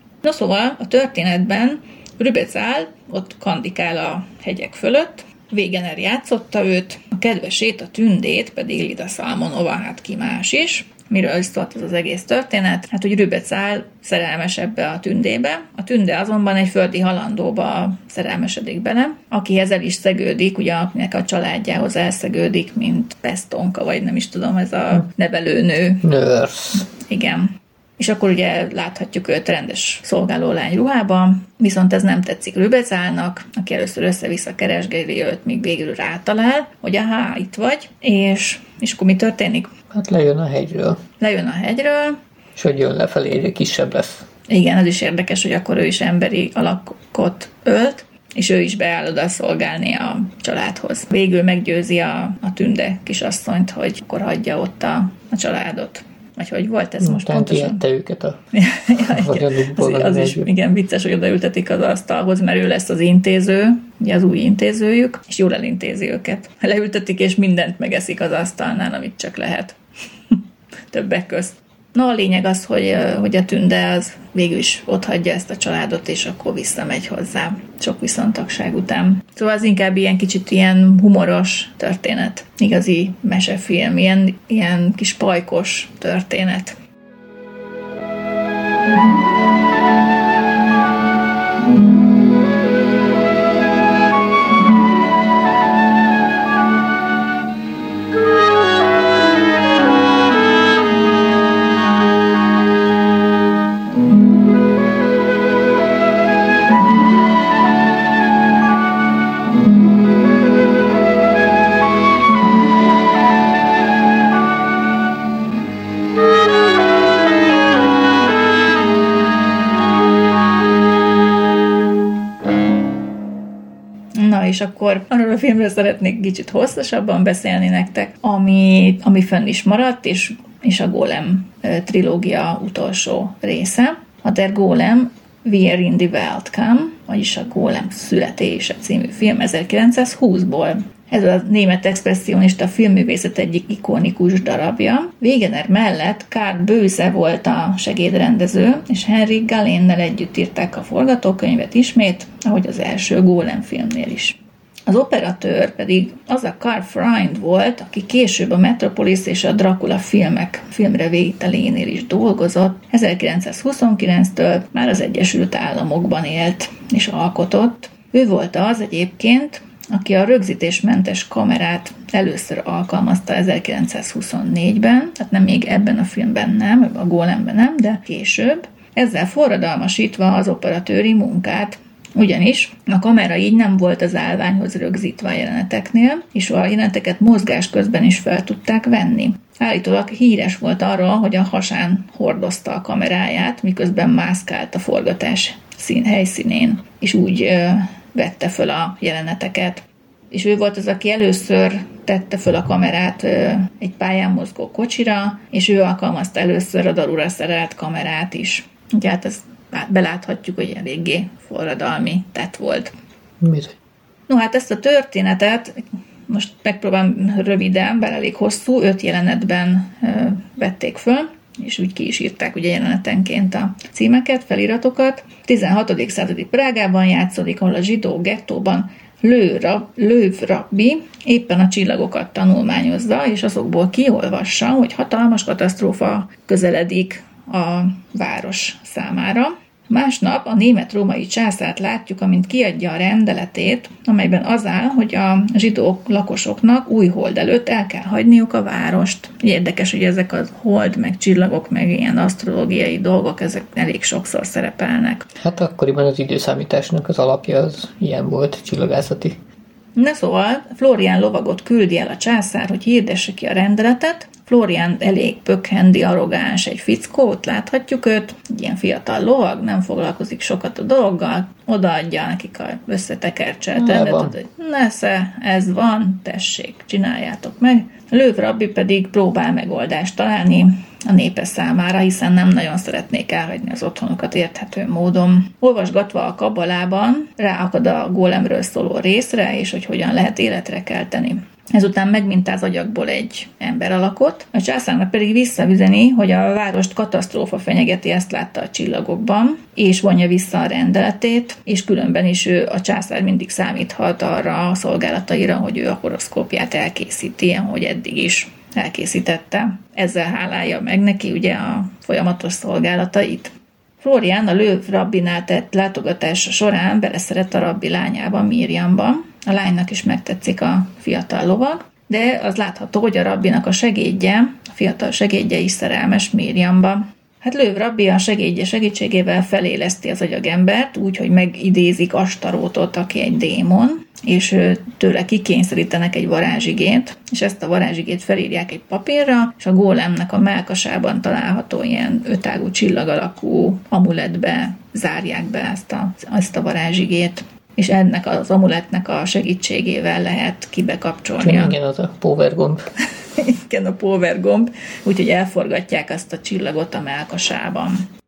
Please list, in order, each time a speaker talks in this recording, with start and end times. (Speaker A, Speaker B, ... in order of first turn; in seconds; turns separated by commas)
Speaker A: 0.2-26.0, Speaker B: 26.0-26.8, Speaker A: 26.9-39.7, Speaker B: 39.9-41.0, Speaker A: 41.2-42.2, Speaker B: 42.5-44.3, Speaker A: 44.5-57.8, Speaker B: 57.0-58.4, Speaker A: 58.5-69.8, Speaker B: 59.1-60.5, Speaker A: 70.9-86.8, Speaker A: 124.2-212.9, Speaker B: 213.4-213.7, Speaker A: 214.3-255.3, Speaker B: 255.4-259.4, Speaker A: 260.0-351.8, Speaker B: 273.8-274.4, Speaker B: 351.4-352.9, Speaker A: 353.3-358.1